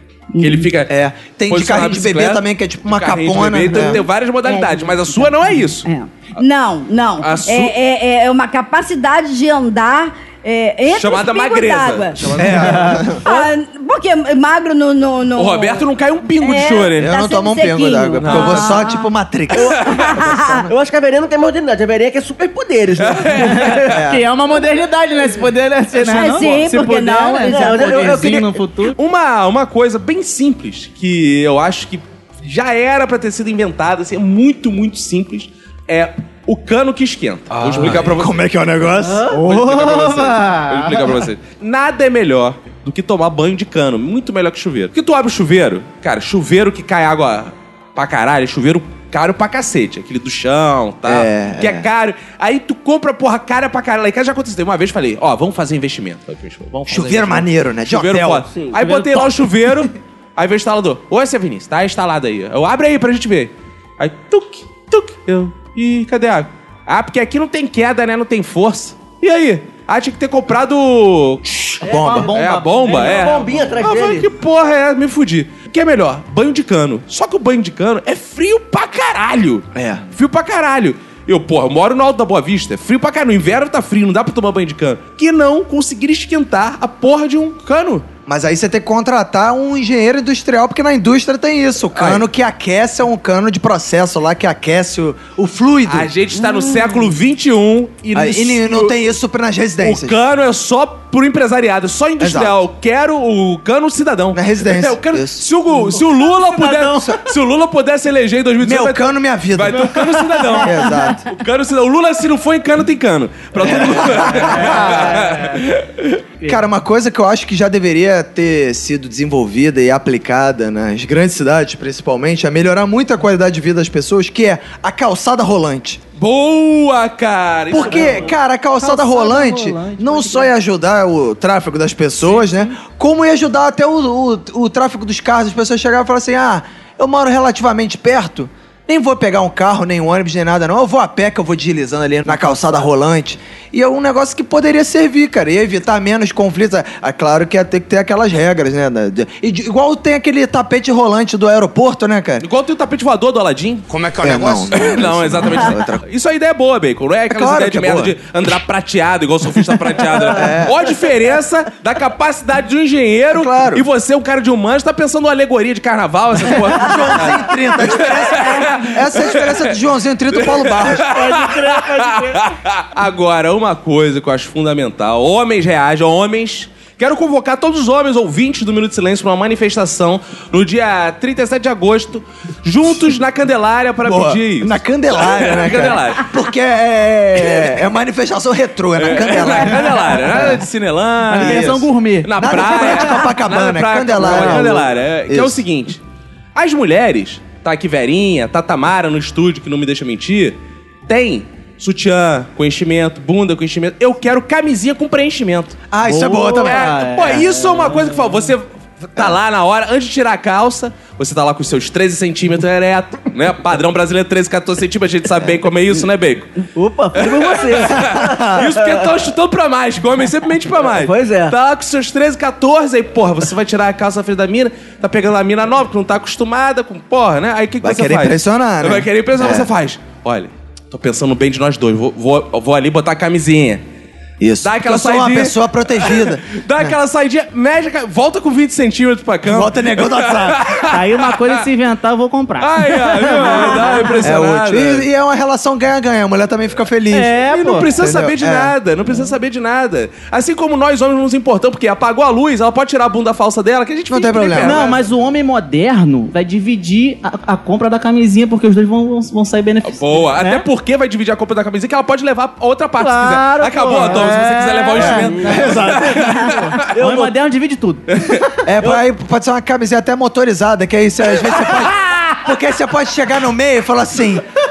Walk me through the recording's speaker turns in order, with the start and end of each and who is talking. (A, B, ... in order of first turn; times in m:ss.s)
0:00.4-0:00.7 A
0:00.4-0:00.9 B
0:00.9-0:04.0 C
0:01.5-0:05.9 B
0:04.4-0:12.4 A
0:07.2-0:07.8 B
0:10.9-0:13.4 B
0:12.3-0:13.2 C
0:13.2-0:15.8 A
0:15.4-0:17.2 B
0:16.4-0:19.1 A
0:17.0-0:20.5 C
0:18.2-0:18.8 B
0:19.6-0:19.8 D
0:19.7-0:20.7 A
0:19.8-0:20.1 B
0:20.7-0:23.8 D
0:23.0-0:24.0 B
0:23.4-0:29.0 E
0:23.9-0:24.3 C
0:26.0-0:28.2 A
0:27.5-0:28.5 D
0:29.0-0:38.4 B
0:37.7-0:39.4 C
0:39.0-0:39.4 D
0:39.3-0:41.1 E
0:39.4-1:28.1 B
0:51.0-0:51.9 C
0:56.9-0:58.5 C
0:58.8-0:59.4 E
1:11.8-1:12.3 C
1:11.8-1:13.8 E
1:12.9-1:14.3 D
1:19.7-1:20.0 C
1:28.3-1:36.1 C
1:32.0-1:32.2 B
1:35.9-1:39.0 B
1:36.4-1:37.0 A
1:38.1-1:40.2 C
1:39.8-1:56.2 B
1:42.2-1:42.6 C
1:44.3-1:45.5 C
1:45.9-1:47.0 E
1:48.6-1:51.3 C
1:53.6-1:55.1 C
1:54.3-1:55.6 E
1:56.5-2:06.0 C
2:06.2-2:08.3 B
2:07.7-2:32.5 C
2:07.8-2:10.5 E
2:12.3-2:12.7 E
2:32.4-2:49.8 B
2:34.2-2:36.0 C
2:37.3-2:38.1 C
2:40.2-2:40.8 C
2:43.3-2:43.8 C
2:46.6-2:51.2 C
2:50.3-3:06.3 B
2:51.1-2:52.4 D
3:04.0-3:10.6 C
3:09.0-3:16.0 B
3:11.3-3:12.3 E
3:11.3-3:15.6 C
3:14.2-3:14.8 E
3:16.6-3:25.8 B
3:25.9-3:27.0 C
3:26.0-3:28.2 E
3:26.6-3:36.5 B
3:36.8-3:39.1 D
3:37.2-3:53.8 B
3:38.2-3:38.6 C
3:40.8-3:41.5 D
3:47.8-3:49.7 C
3:54.4-3:57.0 C
3:54.6-4:01.6 B
3:59.4-4:00.6 C
4:00.9-4:04.2 E
4:02.6-4:05.1 B
4:03.8-4:04.1 A
4:04.2-4:08.8 C
4:07.1-4:07.9 E
4:07.5-4:15.0 B
4:14.1-4:14.9 C
4:14.6-4:20.6 E
4:19.8-4:26.9 B
4:23.0-4:28.0 E
4:25.0-4:26.2 C
4:27.0-4:27.3 D
4:28.2-4:28.4 B
4:28.6-4:34.4 C
4:31.7-4:32.2 B